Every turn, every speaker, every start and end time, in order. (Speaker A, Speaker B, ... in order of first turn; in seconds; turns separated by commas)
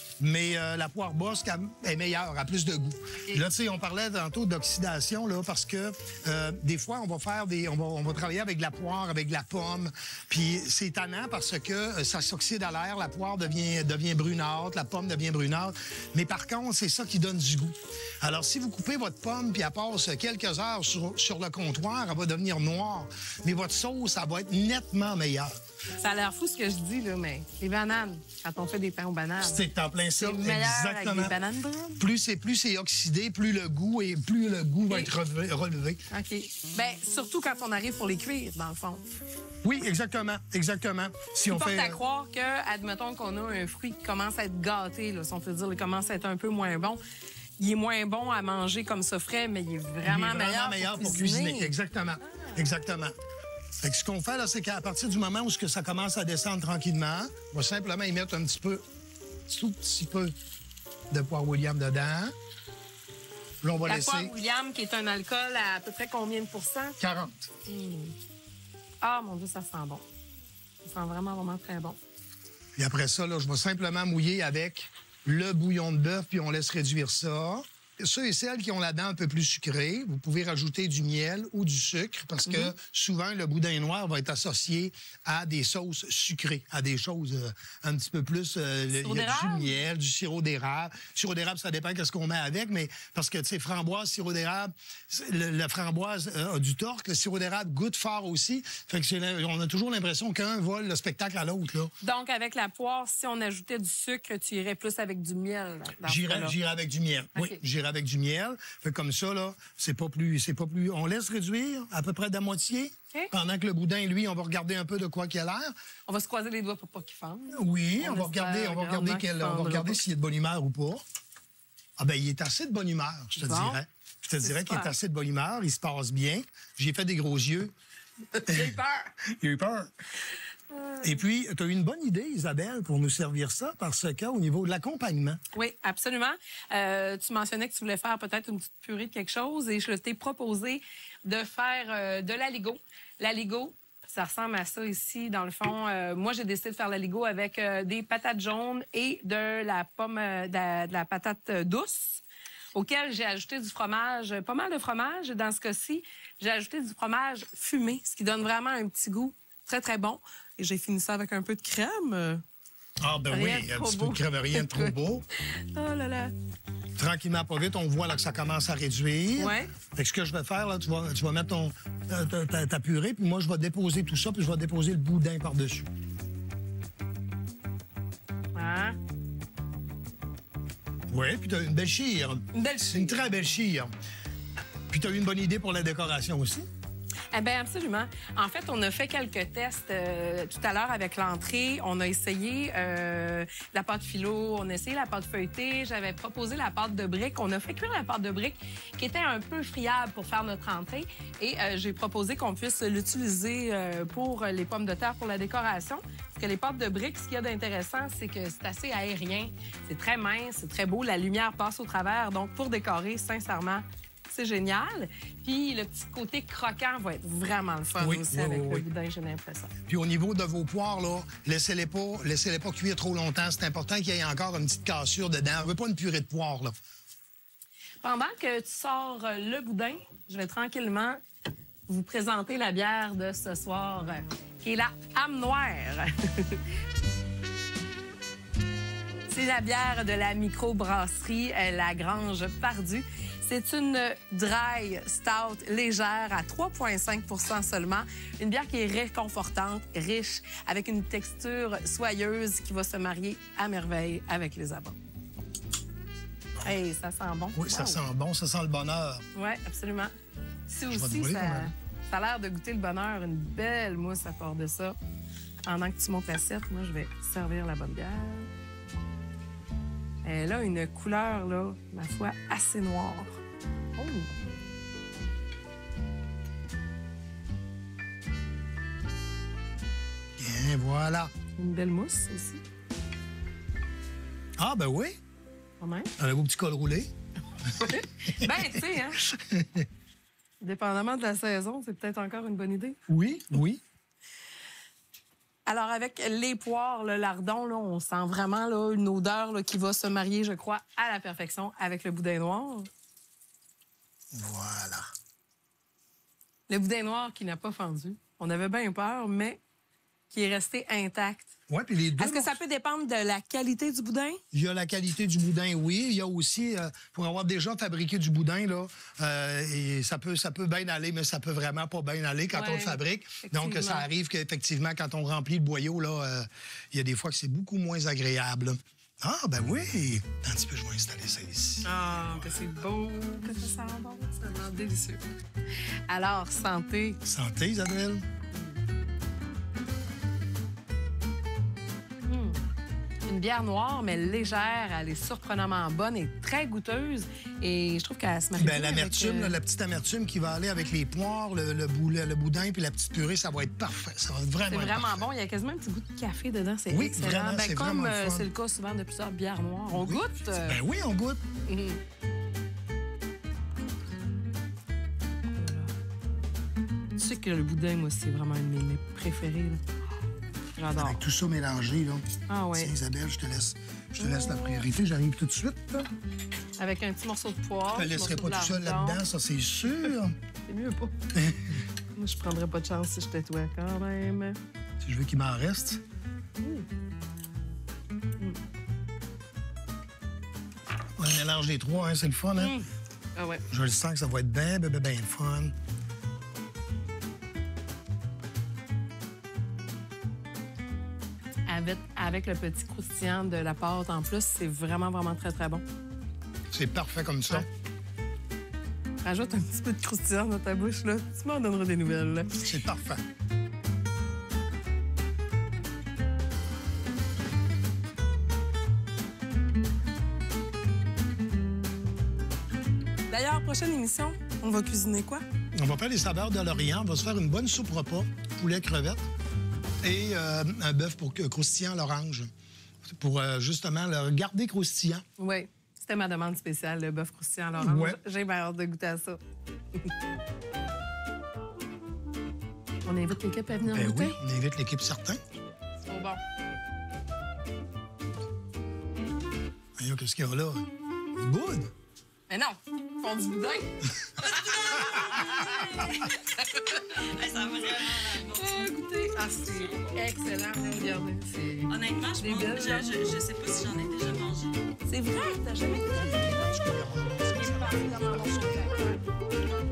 Speaker A: 0.2-25.5, Speaker B: 26.0-29.6, Speaker A: 29.4-31.3, Speaker B: 30.2-32.0, Speaker A: 32.0-36.0, Speaker B: 36.1-39.0, Speaker A: 39.6-42.0, Speaker B: 41.5-47.0, Speaker B: 47.6-51.7, Speaker A: 50.0-53.1, Speaker B: 52.3-52.6, Speaker A: 53.8-58.8, Speaker A: 59.5-60.3, Speaker A: 61.1-62.3, Speaker A: 63.6-64.3, Speaker B: 63.8-67.0, Speaker A: 67.0-67.5, Speaker B: 67.7-68.1, Speaker B: 69.0-70.0, Speaker B: 70.8-72.0, Speaker A: 72.8-101.9, Speaker B: 82.5-82.7, Speaker B: 89.0-89.7, Speaker B: 102.0-106.5, Speaker A: 106.0-115.7, Speaker B: 107.3-107.6, Speaker B: 116.1-120.0, Speaker A: 117.5-121.0, Speaker A: 122.0-127.7, Speaker B: 123.4-123.8, Speaker B: 124.4-124.9, Speaker B: 128.3-129.1, Speaker A: 128.4-129.9, Speaker B: 130.7-131.2, Speaker A: 131.0-135.4, Speaker B: 135.5-152.2, Speaker B: 152.7-162.4, Speaker A: 163.0-165.2, Speaker B: 163.3-166.3, Speaker A: 167.0-175.9, Speaker B: 169.3-169.7, Speaker B: 178.6-179.0, Speaker A: 181.1-183.9, Speaker B: 182.5-183.3, Speaker A: 184.9-186.7, Speaker B: 187.3-219.7, Speaker A: 218.0-218.8, Speaker A: 219.9-226.7, Speaker B: 228.0-231.2, Speaker B: 231.9-236.6, Speaker B: 239.3-255.0, Speaker B: 256.6-258.0, Speaker A: 257.5-259.2, Speaker B: 259.3-260.1, Speaker B: 260.7-264.9, Speaker A: 260.9-261.7, Speaker B: 265.6-268.5, Speaker B: 270.2-273.4, Speaker B: 274.0-274.3, Speaker A: 280.4-281.3, Speaker B: 281.6-282.6, Speaker A: 284.6-285.2, Speaker B: 285.8-286.1, Speaker A: 286.2-287.1, Speaker A: 287.8-289.9, Speaker B: 287.8-289.2, Speaker B: 290.6-293.0, Speaker A: 293.1-293.8, Speaker B: 295.6-302.9, Speaker A: 304.3-305.1, Speaker B: 306.7-309.6, Speaker B: 310.3-311.5, Speaker A: 311.7-312.6, Speaker B: 312.2-314.4, Speaker A: 314.5-332.7, Speaker B: 322.5-324.1, Speaker B: 331.8-335.2, Speaker B: 336.1-337.2, Speaker A: 337.2-338.2, Speaker B: 338.5-338.8, Speaker B: 342.3-342.6, Speaker B: 343.2-349.6, Speaker A: 348.6-355.3, Speaker B: 354.6-360.8, Speaker A: 356.9-358.5, Speaker A: 359.9-361.4, Speaker B: 361.7-362.0, Speaker B: 365.6-365.9, Speaker B: 367.2-369.8, Speaker B: 370.8-371.2, Speaker A: 371.0-376.1, Speaker B: 372.5-372.9, Speaker B: 374.2-374.8, Speaker B: 376.8-379.2, Speaker A: 377.9-380.3, Speaker B: 380.7-381.1, Speaker A: 381.3-381.8, Speaker B: 382.1-384.6, Speaker A: 385.0-386.0, Speaker B: 386.6-386.9, Speaker A: 391.2-392.8, Speaker B: 392.6-393.6, Speaker A: 393.7-395.7, Speaker B: 401.7-405.8, Speaker A: 406.7-407.7, Speaker B: 409.2-412.6, Speaker A: 412.6-413.2, Speaker B: 423.3-425.4, Speaker A: 425.8-429.2, Speaker A: 430.0-432.5, Speaker A: 433.0-435.2, Speaker B: 435.4-439.4, Speaker A: 437.8-438.2, Speaker B: 443.1-444.4, Speaker A: 443.9-445.4, Speaker B: 446.1-446.4, Speaker A: 450.0-450.8, Speaker A: 451.4-451.9, Speaker B: 452.5-457.2, Speaker C: 457.1-458.8, Speaker B: 458.0-463.2, Speaker C: 461.9-464.7, Speaker B: 465.1-466.8, Speaker A: 465.9-469.0, Speaker B: 467.5-469.2